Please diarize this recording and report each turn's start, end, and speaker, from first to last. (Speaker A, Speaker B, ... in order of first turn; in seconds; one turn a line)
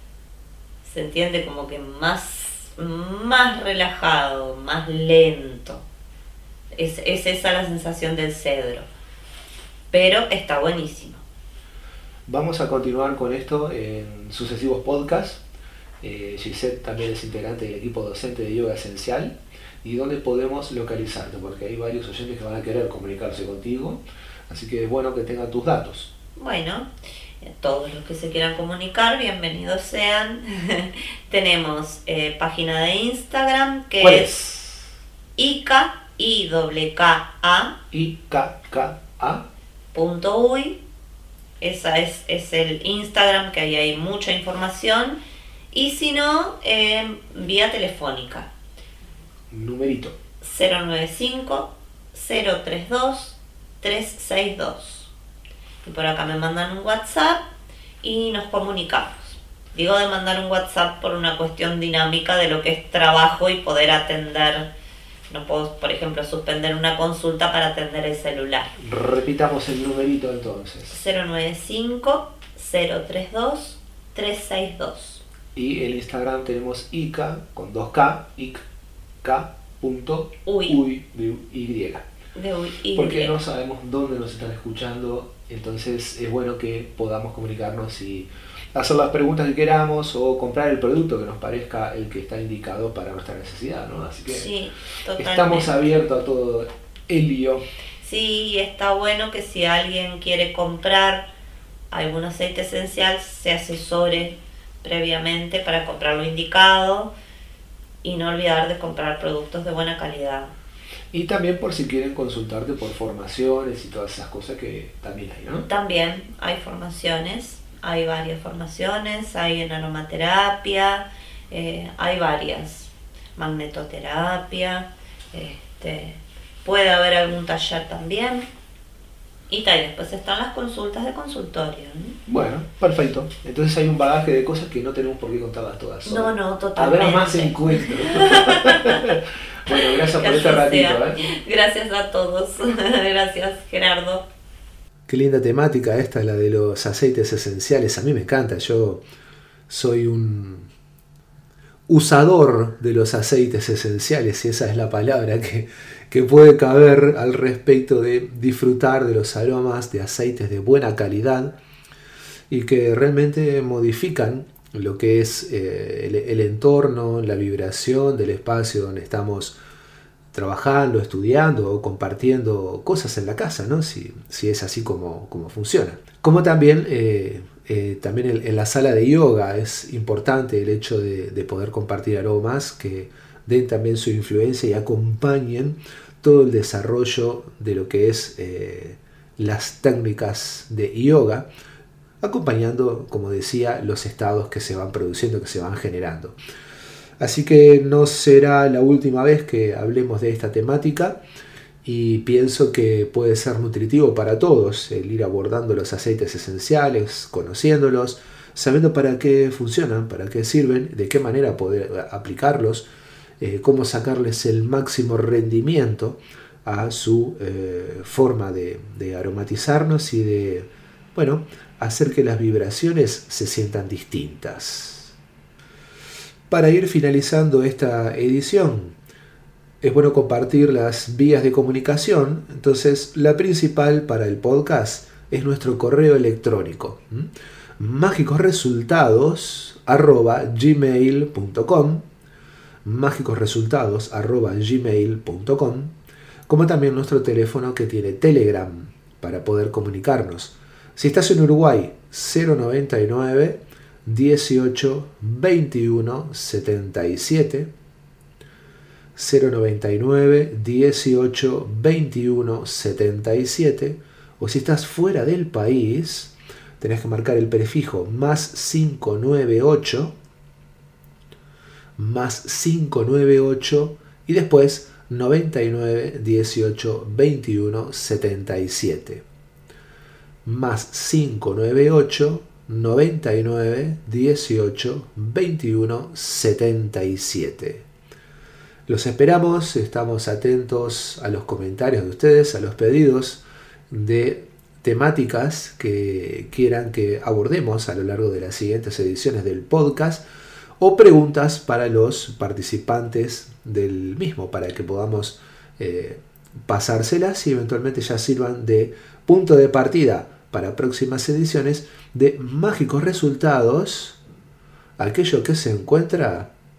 Speaker A: 0.8-5.8
Speaker A: 6.7-8.9
Speaker A: 9.9-11.2
Speaker B: 12.3-15.4
Speaker B: 16.0-26.1
Speaker A: 26.4-26.9
Speaker A: 27.4-34.3
Speaker B: 34.0-34.9
Speaker A: 35.4-37.8
Speaker B: 37.9-39.4
Speaker A: 39.9-40.8
Speaker A: 41.6-45.2
Speaker A: 45.7-48.5
Speaker B: 49.5-50.1
Speaker A: 50.4-55.1
Speaker A: 55.8-57.5
Speaker A: 58.0-64.7
Speaker A: 65.3-68.7
Speaker B: 68.8-71.0
Speaker A: 70.9-75.2
Speaker B: 75.5-78.6
Speaker B: 79.2-82.1
Speaker A: 80.5-80.8
Speaker A: 82.3-83.4
Speaker B: 82.9-94.5
Speaker A: 94.3-95.7
Speaker B: 95.2-97.6
Speaker A: 98.0-101.2
Speaker A: 101.9-107.1
Speaker A: 108.0-110.5
Speaker B: 111.1-115.7
Speaker A: 115.7-128.5
Speaker A: 129.5-132.2
Speaker B: 132.3-141.2
Speaker A: 136.1-139.1
Speaker A: 139.7-144.2
Speaker B: 145.1-149.0
Speaker B: 149.7-150.7
Speaker B: 151.9-161.6
Speaker B: 162.5-169.5
Speaker B: 170.3-191.4
Speaker B: 192.2-196.3
Speaker B: 197.2-201.2
Speaker B: 201.8-212.8
Speaker B: 213.4-225.2
Speaker B: 226.5-228.9
Speaker B: 229.8-242.1
Speaker B: 242.8-245.9
Speaker B: 246.5-257.7
Speaker B: 259.1-270.1
Speaker B: 272.0-279.2
Speaker B: 280.4-287.9
Speaker B: 288.9-300.2
Speaker B: 300.8-314.2
Speaker B: 315.0-316.5